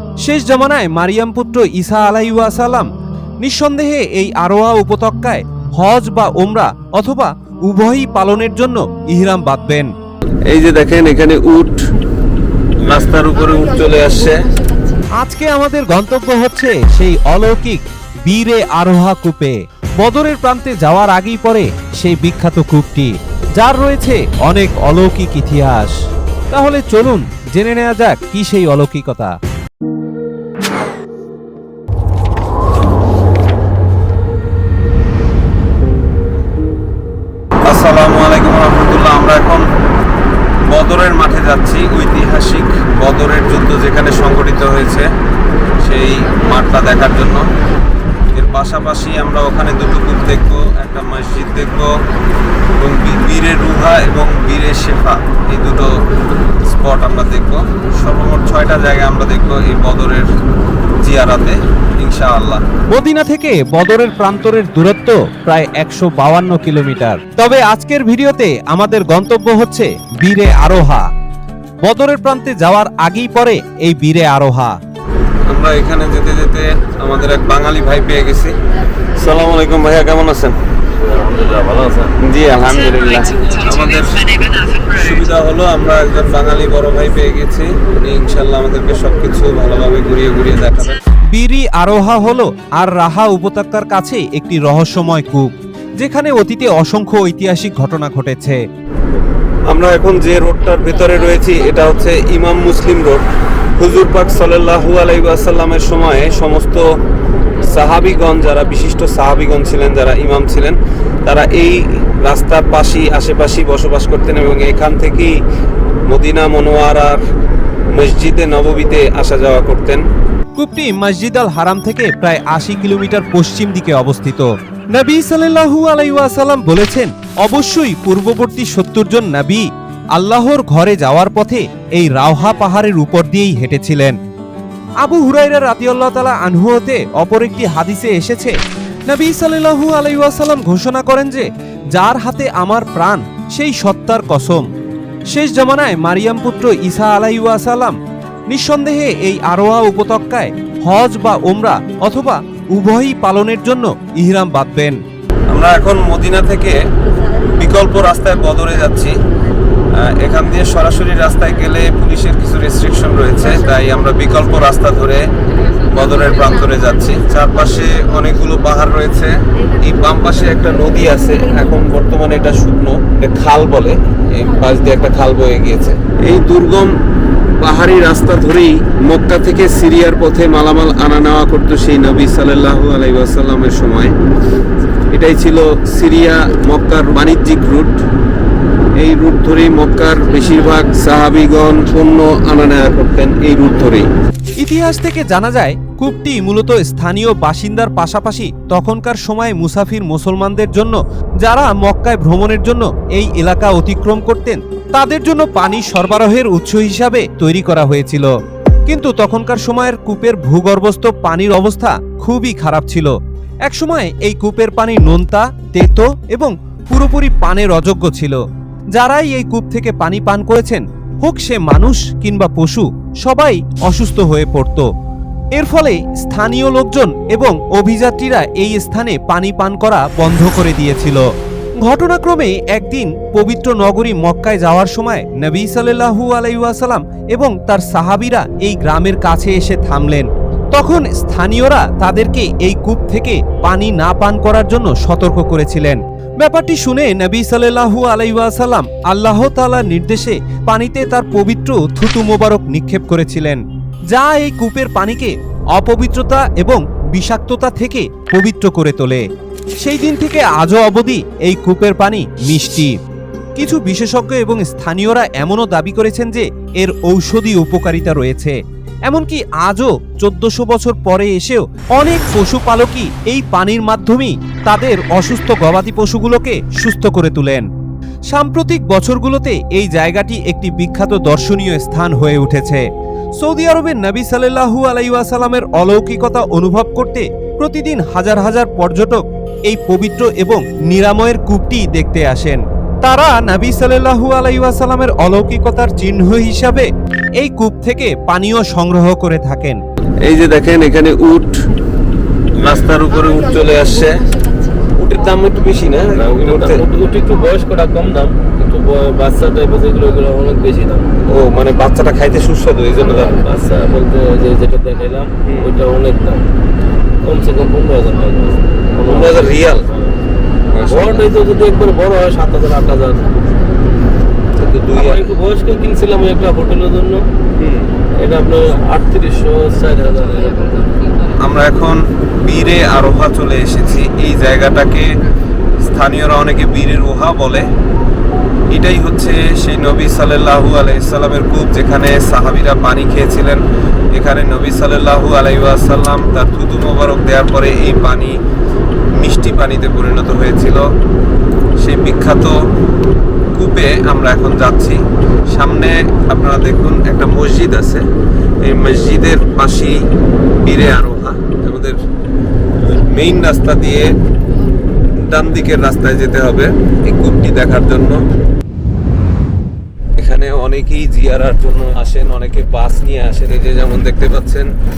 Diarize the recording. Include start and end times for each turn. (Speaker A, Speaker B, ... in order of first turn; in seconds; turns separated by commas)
Speaker A: 0.2-2.9, Speaker A: 3.4-9.9, Speaker B: 10.5-11.9, Speaker B: 12.8-14.5, Speaker A: 15.2-25.9, Speaker A: 26.5-29.3, Speaker B: 37.7-39.6, Speaker B: 40.7-45.1, Speaker B: 45.8-47.4, Speaker B: 48.3-51.9, Speaker B: 52.8-55.9, Speaker B: 56.7-60.3, Speaker B: 61.0-62.6, Speaker A: 62.9-71.1, Speaker A: 71.8-74.8, Speaker B: 75.5-78.6, Speaker B: 79.1-80.6, Speaker C: 81.1-82.2, Speaker B: 82.2-91.0, Speaker A: 91.3-98.6, Speaker B: 99.7-103.2, Speaker B: 103.8-106.8, Speaker B: 107.6-115.3, Speaker B: 116.1-117.2, Speaker B: 117.9-120.0, Speaker A: 120.6-134.2, Speaker A: 135.0-138.6, Speaker A: 139.1-144.7, Speaker A: 145.3-148.0, Speaker A: 148.5-155.0, Speaker B: 155.5-156.8, Speaker B: 157.5-159.1, Speaker B: 160.0-165.3, Speaker B: 165.9-176.9, Speaker B: 177.6-184.1, Speaker B: 185.1-188.0, Speaker B: 189.0-194.1, Speaker A: 194.6-208.3, Speaker A: 208.9-213.2, Speaker A: 213.7-218.4, Speaker A: 218.9-224.9, Speaker A: 225.5-231.2, Speaker A: 231.8-259.2, Speaker A: 259.8-262.9, Speaker A: 263.6-277.6, Speaker A: 278.3-282.8, Speaker A: 283.4-296.9, Speaker A: 297.4-299.8, Speaker B: 300.2-301.6, Speaker B: 302.6-304.3, Speaker B: 305.0-306.8, Speaker C: 306.1-311.1, Speaker B: 311.3-313.4, Speaker C: 313.0-316.4, Speaker B: 315.4-315.8, Speaker C: 317.2-319.7, Speaker B: 319.1-319.8, Speaker B: 320.7-321.2, Speaker C: 320.8-323.3, Speaker B: 324.6-325.2, Speaker C: 324.9-327.2, Speaker B: 327.6-327.9, Speaker C: 328.2-330.9, Speaker B: 331.4-335.1, Speaker B: 335.9-337.6, Speaker B: 338.7-343.6, Speaker B: 344.1-348.4, Speaker B: 349.1-350.9, Speaker B: 351.8-352.6, Speaker B: 353.6-355.0, Speaker B: 355.5-358.1, Speaker B: 358.6-360.0, Speaker B: 360.6-362.0, Speaker B: 362.9-364.1, Speaker B: 365.2-368.2, Speaker B: 370.2-374.7